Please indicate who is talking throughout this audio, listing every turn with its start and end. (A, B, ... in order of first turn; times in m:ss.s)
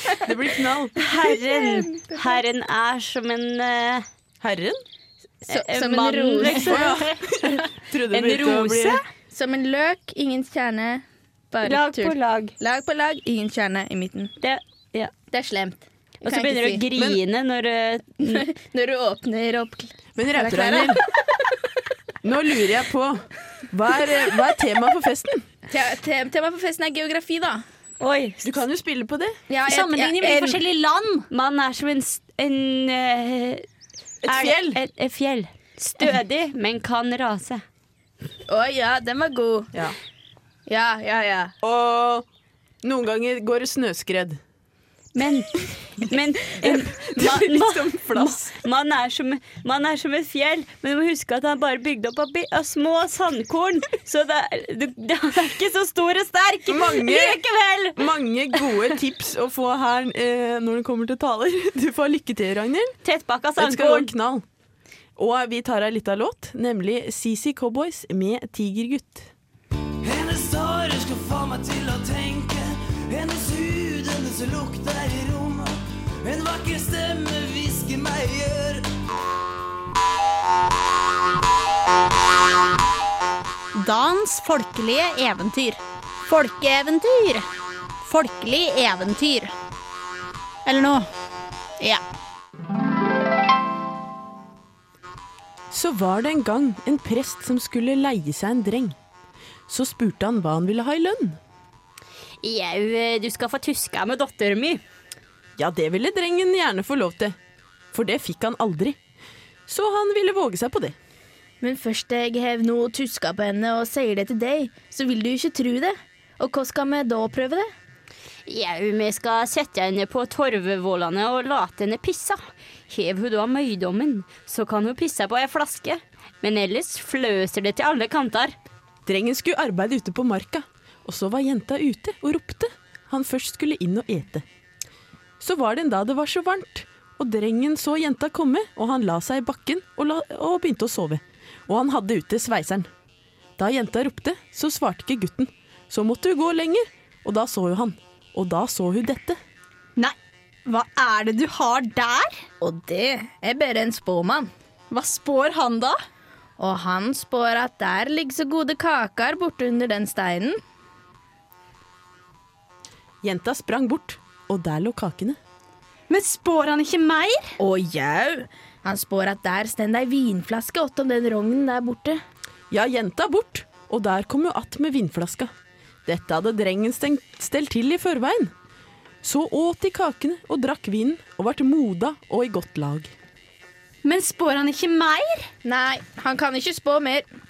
0:00.2-0:01.0 A
0:01.0-0:04.0 B
0:01.3-0:02.4 C
0:04.4-0:04.8 A
0:05.5-0:06.8 C
0:05.5-0:09.0 B
0:06.4-0:09.0 A
0:09.3-0:14.3 C
0:11.6-0:12.5 B
0:14.4-0:15.1 B
0:15.3-0:16.8 C
0:16.2-0:18.4 B
0:18.2-0:21.1 C
0:20.2-0:21.0 A
0:22.2-0:25.4 A
0:25.7-0:27.6 C
0:28.0-0:28.5 B
0:28.4-0:29.4 A
0:29.5-0:30.6 C
0:29.6-0:31.3 D
0:31.3-0:33.6 B
0:34.2-0:34.8 A
0:34.2-0:37.6 B
0:38.5-0:39.7 C
0:40.7-0:41.5 C
0:41.6-0:42.2 A
0:42.8-0:44.4 A
0:45.1-0:58.7 B
0:46.6-0:48.6 A
0:56.7-0:57.4 A
0:57.9-1:03.0 A
1:03.0-1:04.1 B
1:03.6-1:04.4 A
1:05.2-1:09.3 A
1:10.0-1:18.9 E
1:23.7-1:27.4 D
1:28.0-1:29.5 D
1:30.6-1:31.1 D
1:35.7-1:39.0 A
1:39.7-1:41.4 A
1:42.4-1:44.8 B
1:45.6-1:47.4 A
1:47.9-1:49.0 A
1:49.7-1:50.9 A
1:51.6-1:57.7 C
1:58.4-2:08.5 B
2:09.0-2:14.4 A
2:15.4-2:22.9 A
2:23.6-2:29.4 A
2:30.7-2:32.4 D
2:32.6-2:34.5 C
2:34.9-2:36.0 D
2:36.6-2:40.6 C
2:43.2-2:45.4 A
2:46.1-2:47.5 D
2:47.6-2:52.2 C
2:52.7-2:55.5 A
2:56.0-2:58.5 A
2:59.2-3:03.1 A
3:04.0-3:05.5 D
3:05.6-3:07.3 C